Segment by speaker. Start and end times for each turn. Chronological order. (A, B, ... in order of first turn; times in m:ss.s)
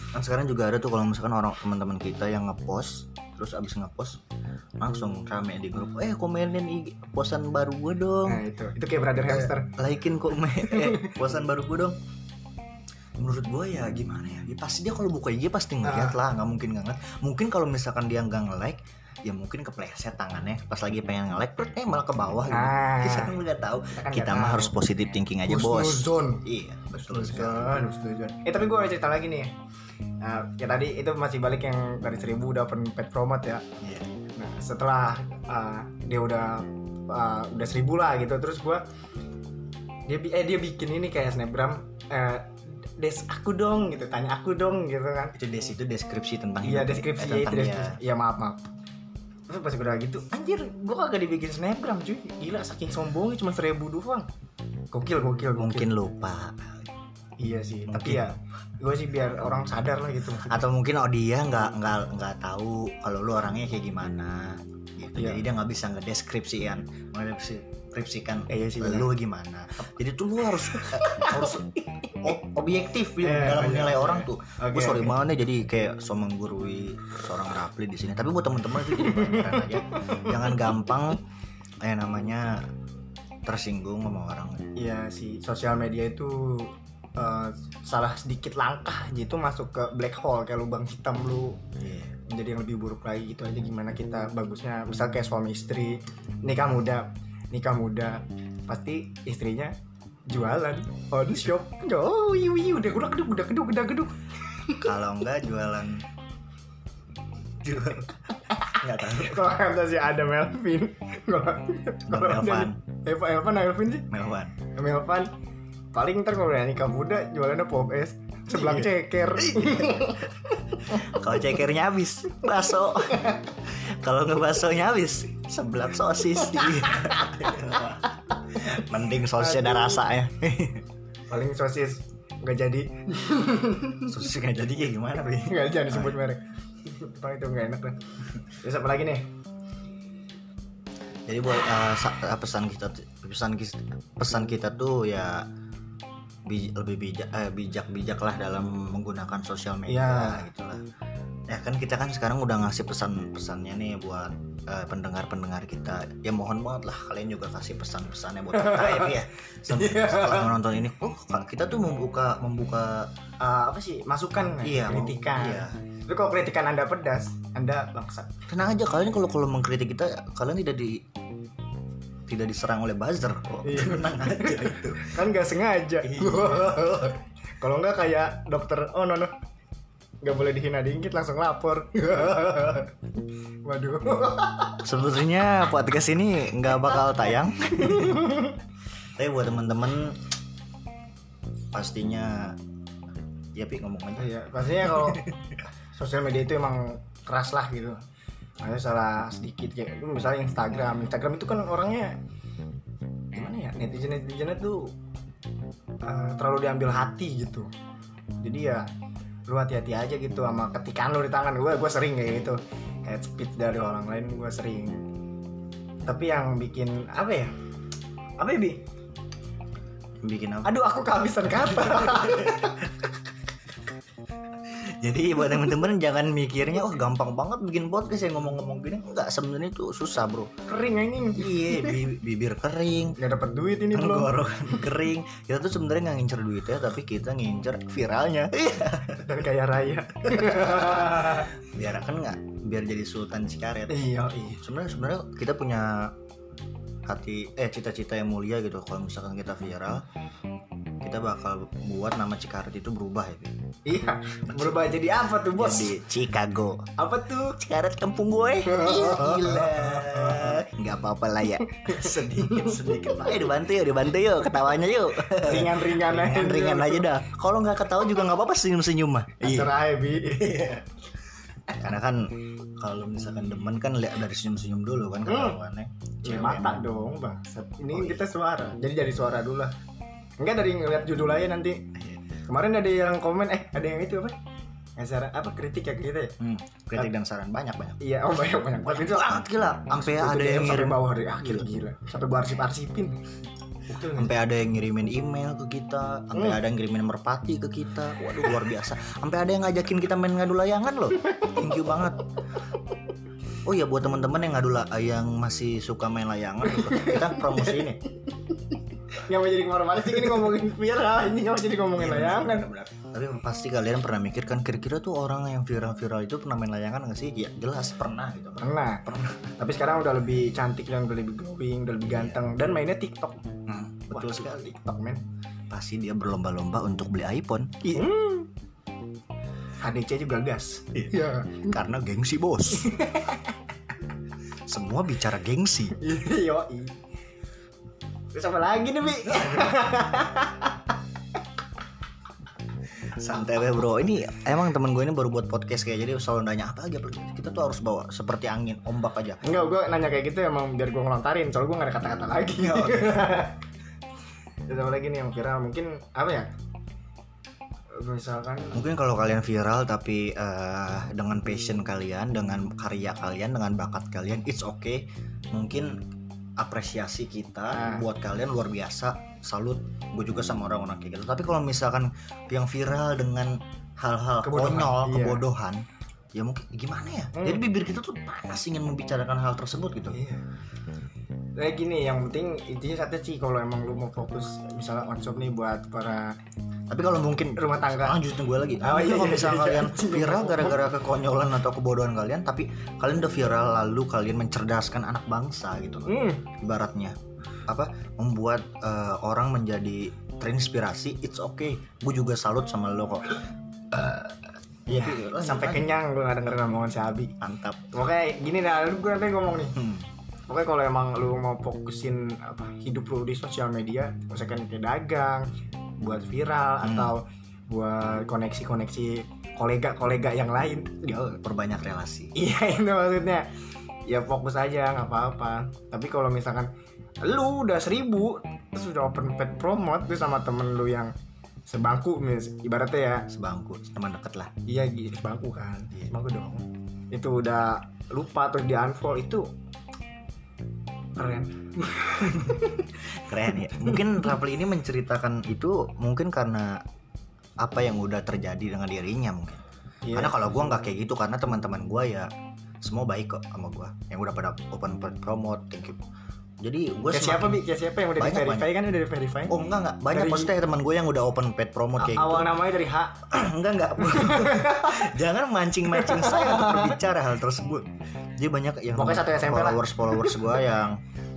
0:00.1-0:04.2 A
0:04.8-0:08.4 A
0:08.3-0:09.7 B
0:09.3-0:12.0 A
0:10.7-0:11.1 B
0:13.2-0:27.8 A
0:15.8-0:16.2 B
0:22.5-0:23.4 B
0:24.0-0:24.7 B
0:25.5-0:26.4 B
0:27.0-0:29.5 B
0:30.2-0:33.6 B
0:33.8-0:34.1 A
0:34.4-0:38.8 B
0:40.1-0:45.4 B
0:45.4-0:48.0 A
0:46.6-0:48.7 B
0:49.5-0:54.3 B
0:54.9-0:55.9 B
0:55.6-0:56.9 A
0:57.4-1:00.6 B
0:57.9-0:58.4 A
1:00.4-1:11.7 A
1:05.2-1:05.4 B
1:08.5-1:09.1 B
1:10.6-1:12.3 B
1:12.2-1:21.2 A
1:13.2-1:15.1 B
1:18.8-1:20.7 B
1:21.8-1:22.6 A
1:23.5-1:24.6 A
1:24.8-1:31.6 B
1:31.8-1:32.2 A
1:32.3-1:39.7 B
1:40.3-1:44.9 B
1:44.8-1:46.0 A
1:47.6-1:48.2 A
1:48.7-1:49.5 A
1:49.1-1:54.1 B
1:52.1-1:52.8 A
1:54.1-1:54.5 A
1:54.8-1:55.3 B
1:55.9-2:01.0 B
1:58.5-2:00.2 A
2:00.8-2:10.8 A
2:06.6-2:07.8 B
2:09.4-2:10.0 B
2:11.3-2:14.2 B
2:14.1-2:16.2 A
2:15.4-2:19.2 B
2:21.3-2:25.5 A
2:26.5-2:30.8 A
2:29.9-2:30.4 B
2:31.5-2:43.1 A
2:38.6-2:39.2 B
2:39.7-2:40.5 B
2:43.4-2:48.3 B
2:44.6-2:45.8 A
2:48.5-2:51.0 A
2:52.3-2:55.2 A
2:53.6-2:59.3 B
2:56.0-2:57.1 A
3:00.2-3:02.9 B
3:03.7-3:04.8 B
3:04.8-3:08.3 A
3:07.9-3:08.6 B
3:09.2-3:10.2 A
3:11.7-3:12.6 A
3:13.6-3:14.3 A
3:14.2-3:15.3 B
3:14.9-3:15.4 A
3:15.9-3:18.0 B
3:18.6-3:22.2 B
3:23.4-3:24.9 B
3:26.0-3:27.7 B
3:28.4-3:28.9 B
3:29.5-3:35.0 B
3:36.1-3:37.5 B
3:38.4-3:38.8 B
3:40.2-3:40.7 A
3:40.6-3:43.0 B
3:42.0-3:42.6 A
3:44.7-3:50.5 A
3:50.7-3:52.0 B
3:51.4-3:53.2 A
3:53.2-3:54.4 B
3:53.9-3:59.3 A
3:59.2-4:01.5 B
4:00.3-4:04.0 A
4:03.9-4:04.6 B
4:04.6-4:06.1 A
4:07.1-4:10.0 A
4:11.0-4:13.6 A
4:13.9-4:16.0 B
4:14.5-4:14.9 A
4:15.6-4:16.9 A
4:17.0-4:17.6 B
4:17.6-4:29.7 A
4:18.7-4:20.6 B
4:21.7-4:23.4 B
4:25.3-4:27.1 B
4:29.4-4:30.8 B
4:30.4-4:30.8 A
4:31.7-4:36.8 A
4:35.3-4:35.6 B
4:36.2-4:39.7 B
4:37.9-4:38.3 A
4:40.4-4:41.8 B
4:42.5-4:44.4 B
4:45.0-4:46.4 B
4:46.4-4:48.0 A
4:48.0-4:53.2 B
4:48.9-4:51.7 A
4:53.9-4:54.3 B
4:54.0-5:02.2 A
4:56.3-4:56.6 B
5:03.7-5:08.0 A
5:06.7-5:07.8 B
5:09.1-5:12.6 B
5:12.0-5:19.4 A
5:18.6-5:23.5 B
5:22.1-5:22.4 A
5:23.7-5:24.8 A
5:24.1-5:25.2 B
5:25.7-5:28.1 A
5:27.9-5:28.5 B
5:29.8-5:31.8 B
5:31.0-5:33.0 A
5:32.8-5:33.6 B
5:34.7-5:36.0 A
5:36.0-5:37.0 B
5:38.3-5:40.9 B
5:39.3-5:39.7 A
5:43.1-5:49.4 A
5:49.4-5:53.6 B
5:52.6-5:53.4 A
5:54.7-5:56.5 B
5:58.0-5:58.8 B
5:58.7-6:06.0 A
6:06.6-6:20.2 A
6:07.7-6:08.1 B
6:14.4-6:15.4 B
6:17.3-6:17.6 B
6:20.1-6:20.4 B
6:21.6-6:26.4 B
6:26.9-6:37.2 A
6:27.6-6:28.2 B
6:28.8-6:30.8 B
6:36.1-6:36.4 B
6:37.7-6:44.3 A
6:44.9-6:45.9 A
6:44.9-6:47.3 B
6:47.4-6:47.9 A
6:47.9-6:49.8 B
6:49.8-6:50.1 A
6:50.5-6:55.5 B
6:56.0-7:01.1 B
6:56.8-6:57.1 A
7:01.0-7:02.3 A
7:02.4-7:03.5 B
7:04.1-7:06.7 B
7:07.2-7:11.1 B
7:11.7-7:13.3 B
7:13.3-7:14.5 A
7:14.7-7:19.5 B
7:21.2-7:22.9 B
7:23.1-7:26.8 A
7:27.6-7:29.6 A
7:30.0-7:30.4 B
7:30.2-7:32.3 A
7:32.8-7:36.0 A
7:36.6-7:37.6 A
7:37.1-7:39.6 B
7:38.2-7:38.7 A
7:39.5-7:42.5 A
7:40.1-7:40.5 B
7:42.0-7:43.3 B
7:43.3-7:51.0 A
7:44.0-7:45.2 B
7:45.9-7:47.0 B
7:49.0-7:50.5 B